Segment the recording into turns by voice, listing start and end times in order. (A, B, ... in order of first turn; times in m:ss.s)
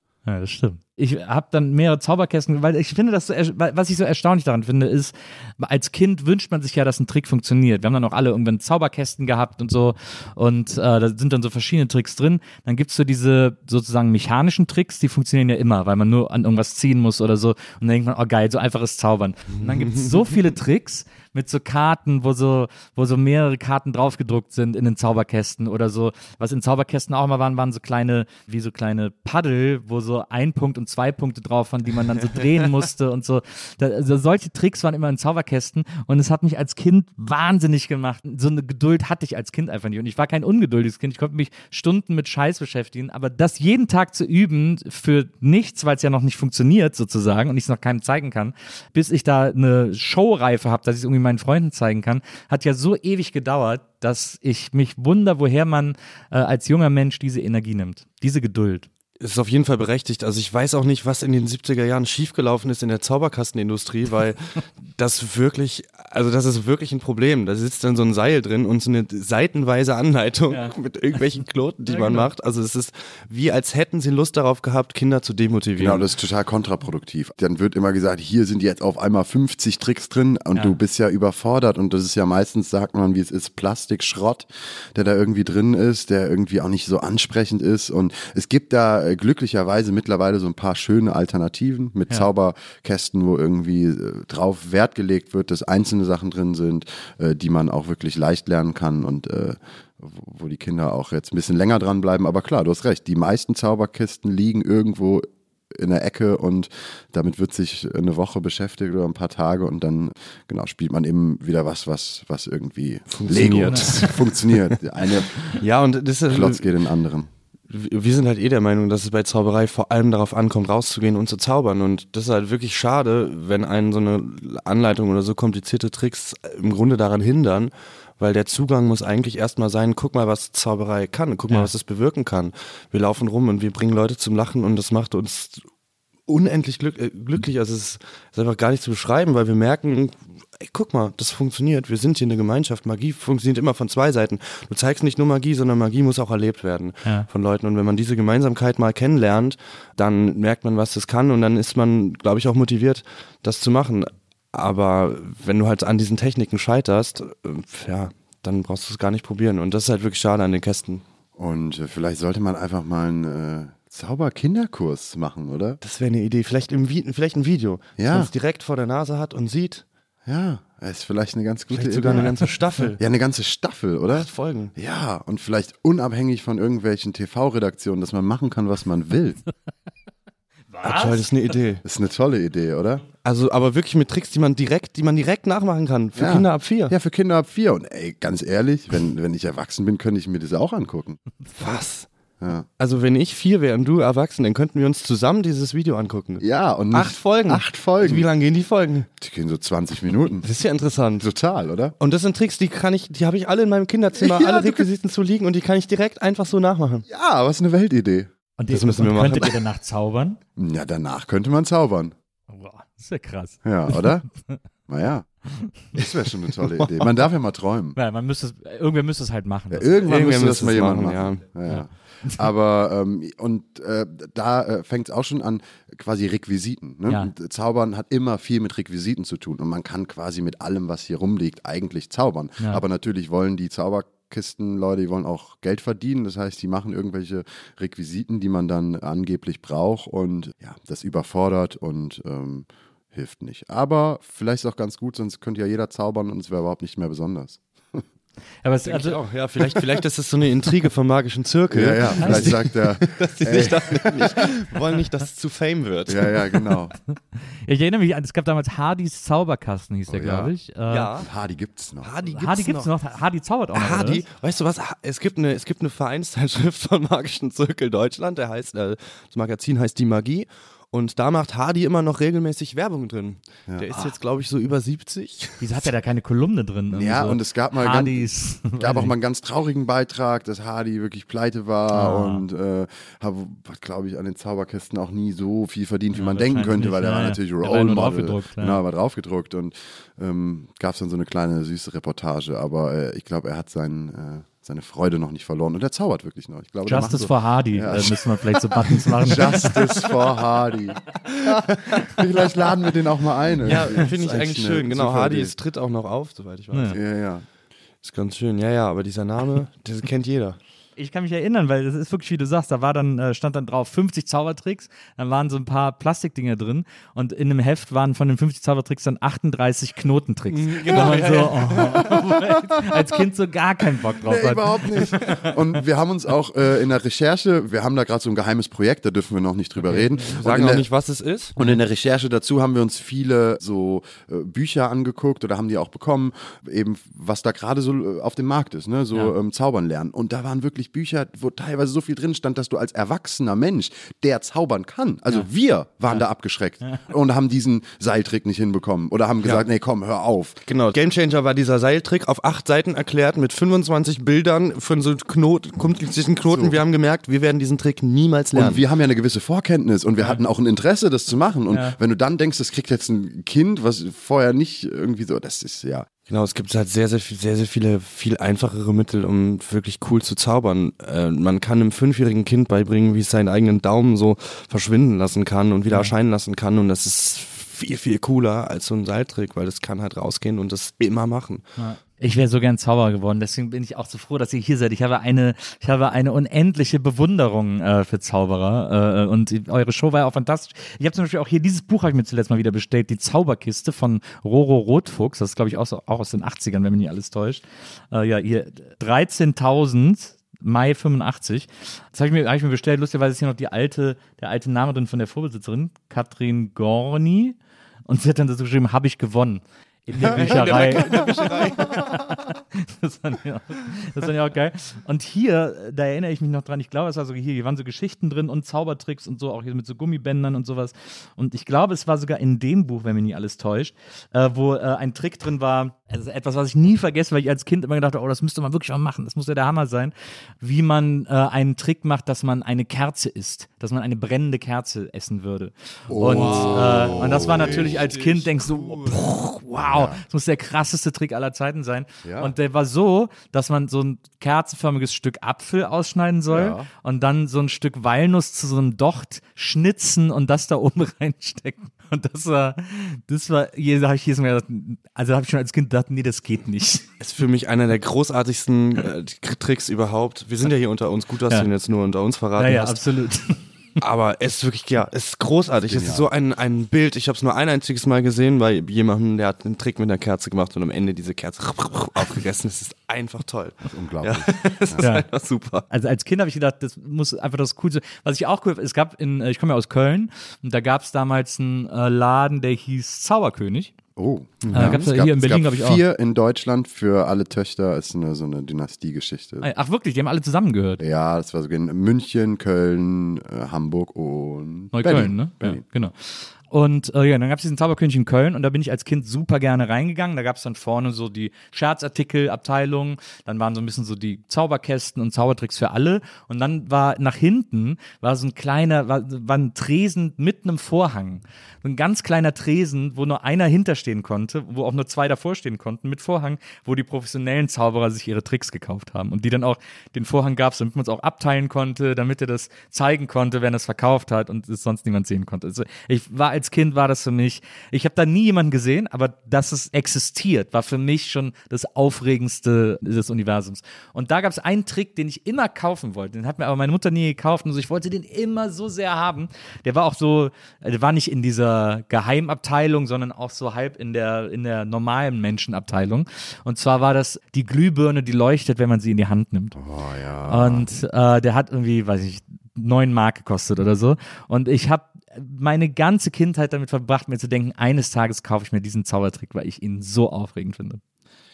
0:00.2-0:58.9 A
0:19.5-0:20.3 B
0:59.2-1:16.0 B
1:11.8-1:12.3 A
1:15.8-1:55.4 C
1:53.1-1:54.8 B
1:53.7-1:54.1 A
1:55.6-1:56.7 B
1:56.3-1:57.3 C
1:57.7-2:15.6 B
2:16.3-2:41.0 B
2:41.4-2:45.8 C
2:45.8-2:49.8 B
2:48.0-2:48.3 C
2:50.2-2:52.4 C
2:51.7-2:53.0 B
2:53.0-2:59.4 C
2:54.1-2:54.7 B
3:00.7-3:01.2 A
3:00.8-3:01.8 B
3:01.8-3:03.0 C
3:03.2-3:06.9 B
3:06.2-3:11.2 C
3:11.6-3:12.1 B
3:12.4-3:12.7 C
3:12.8-3:19.1 B
3:16.4-3:18.3 C
3:19.2-3:20.5 C
3:20.4-3:21.3 B
3:21.2-3:21.9 C
3:22.0-3:27.0 B
3:24.2-3:24.8 C
3:27.1-3:28.3 C
3:28.6-3:30.4 A
3:28.7-3:29.6 B
3:30.6-3:32.1 C
3:32.5-3:34.6 A
3:33.6-3:34.2 C
3:34.9-3:35.3 C
3:35.9-3:38.0 C
3:38.0-3:39.9 A
3:39.7-4:08.0 C
3:40.0-3:41.4 B
3:41.7-3:42.4 A
4:08.6-4:09.2 A
4:08.8-4:16.4 B
4:11.7-4:14.4 C
4:12.2-4:12.5 A
4:16.1-4:17.0 C
4:17.4-4:21.1 A
4:20.1-4:20.5 C
4:20.9-4:21.3 B
4:21.2-4:22.2 C
4:22.0-4:22.9 B
4:22.4-4:24.2 A
4:23.7-4:35.9 B
4:33.7-4:34.1 C
4:35.6-4:39.1 A
4:36.9-5:05.5 C
4:41.9-4:42.4 A
4:46.1-4:48.8 A
4:56.8-4:59.8 A
5:03.6-5:07.0 B
5:06.9-5:07.4 C
5:08.0-5:10.6 B
5:11.0-5:25.5 A
5:20.5-5:22.2 B
5:21.8-5:22.5 C
5:24.2-5:30.9 C
5:29.9-5:30.2 A
5:30.3-5:31.5 B
5:31.6-5:50.6 C
5:50.7-5:58.8 B
5:56.5-5:56.8 C
5:58.5-6:06.1 C
6:01.7-6:02.0 A
6:06.3-6:21.6 B
6:21.8-7:37.0 A
6:50.2-6:52.1 B
7:16.1-7:18.0 C
7:16.2-7:19.3 B
7:19.8-7:20.2 C
7:22.2-7:22.5 C
7:26.5-7:26.9 C
7:37.2-7:43.0 B
7:42.6-7:43.6 A
7:44.0-7:55.8 B
7:45.9-7:46.3 C
7:53.9-7:55.0 C
7:55.0-7:55.2 A
7:55.9-8:03.9 A
8:04.2-8:09.7 C
8:04.6-8:05.0 B
8:04.7-8:06.0 A
8:09.6-8:11.0 A
8:11.0-8:15.8 C
8:14.9-9:09.8 A
9:09.7-9:10.9 C
9:10.5-9:21.0 A